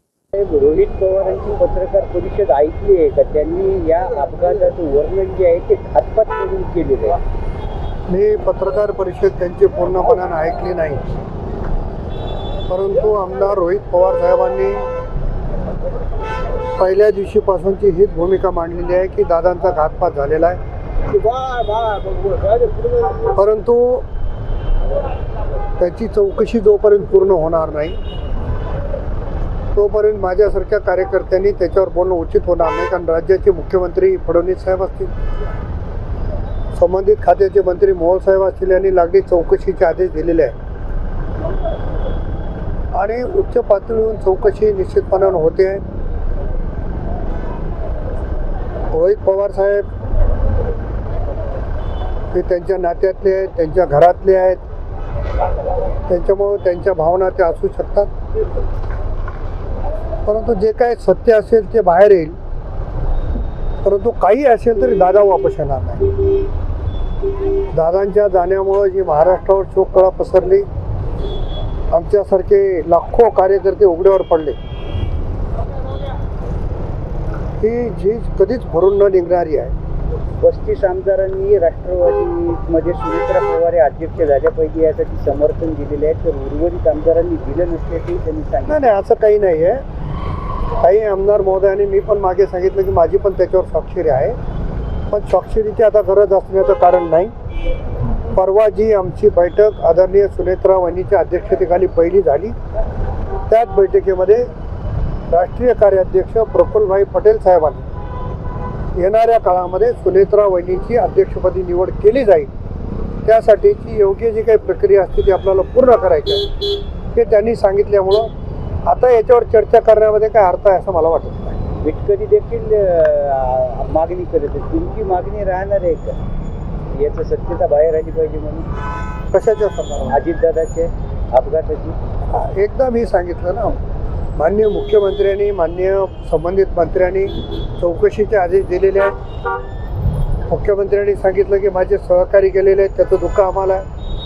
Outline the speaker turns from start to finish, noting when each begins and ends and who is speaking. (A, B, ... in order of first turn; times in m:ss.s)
0:00.3-0:07.2 A
0:08.1-0:11.0 B
0:12.7-0:14.9 B
0:16.8-0:20.6 B
0:21.1-0:23.2 A
0:23.3-0:24.0 B
0:25.8-0:28.0 B
0:29.7-0:35.1 B
0:36.7-0:40.6 B
0:42.9-0:45.8 B
0:48.9-0:49.9 B
0:52.3-0:54.6 B
0:56.1-0:58.1 B
1:00.2-1:02.4 B
1:03.8-1:06.2 B
1:07.7-1:10.7 B
1:11.9-1:14.6 B
1:17.6-1:19.7 B
1:20.4-1:28.9 A
1:28.7-1:29.8 B
1:30.8-1:34.4 B
1:35.1-1:37.3 B
1:38.3-1:42.6 B
1:43.5-1:44.5 B
1:45.3-1:47.9 B
1:48.9-1:52.5 B
1:53.2-1:56.5 B
1:57.1-1:58.3 B
1:58.8-2:01.6 B
2:01.8-2:06.2 A
2:06.9-2:08.7 A
2:09.3-2:10.2 B
2:10.1-2:12.0 A
2:12.3-2:13.8 B
2:14.4-2:19.1 B
2:20.5-2:23.8 B